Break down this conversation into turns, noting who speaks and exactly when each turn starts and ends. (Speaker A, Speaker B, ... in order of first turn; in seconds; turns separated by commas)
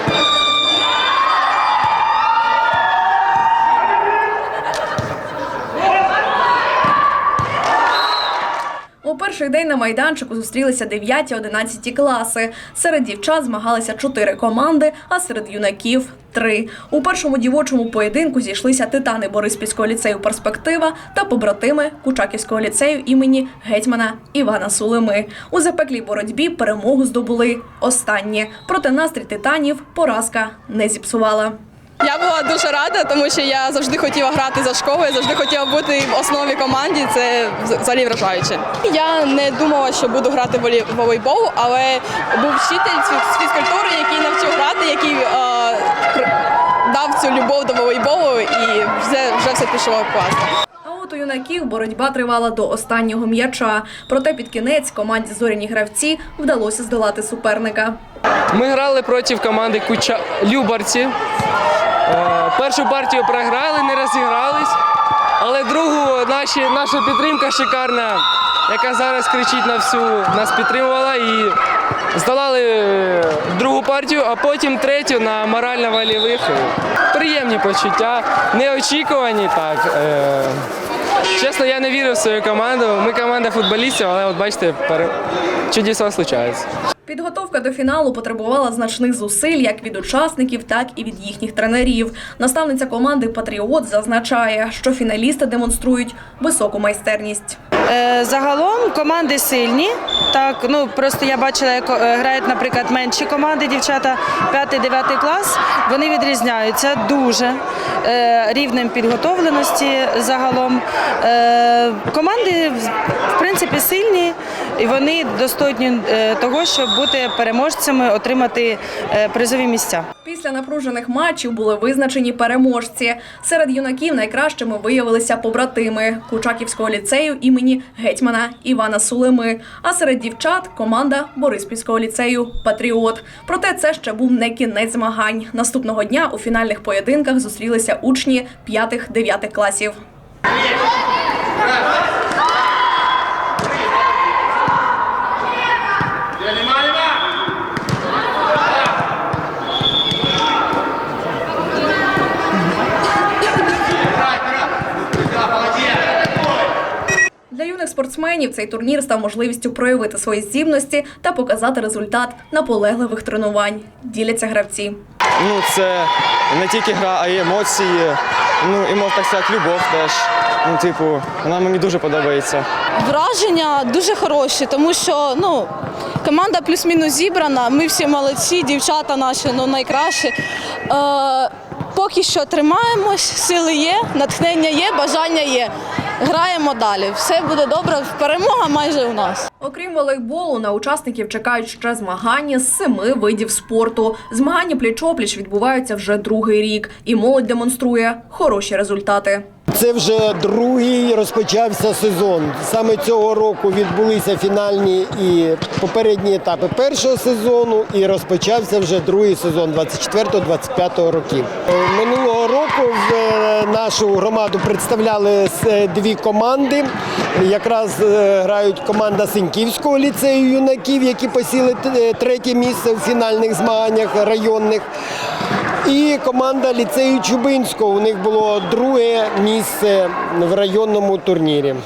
Speaker A: 9.0-31.5, Speaker B: 32.0-50.5, Speaker A: 50.8-58.0, Speaker C: 58.5-61.1, Speaker C: 62.1-64.8, Speaker C: 65.4-71.5, Speaker C: 72.1-80.7, Speaker C: 81.4-85.1, Speaker C: 85.7-86.7, Speaker A: 87.1-97.6, Speaker D: 97.9-120.0, Speaker A: 120.2-139.9, Speaker A: 157.5-165.0, Speaker E: 165.4-172.7, Speaker B: 173.0-180.3, Speaker B: 180.9-189.4, Speaker A: 189.6-199.4, Speaker F: 199.7-224.8, Speaker F: 225.8-231.8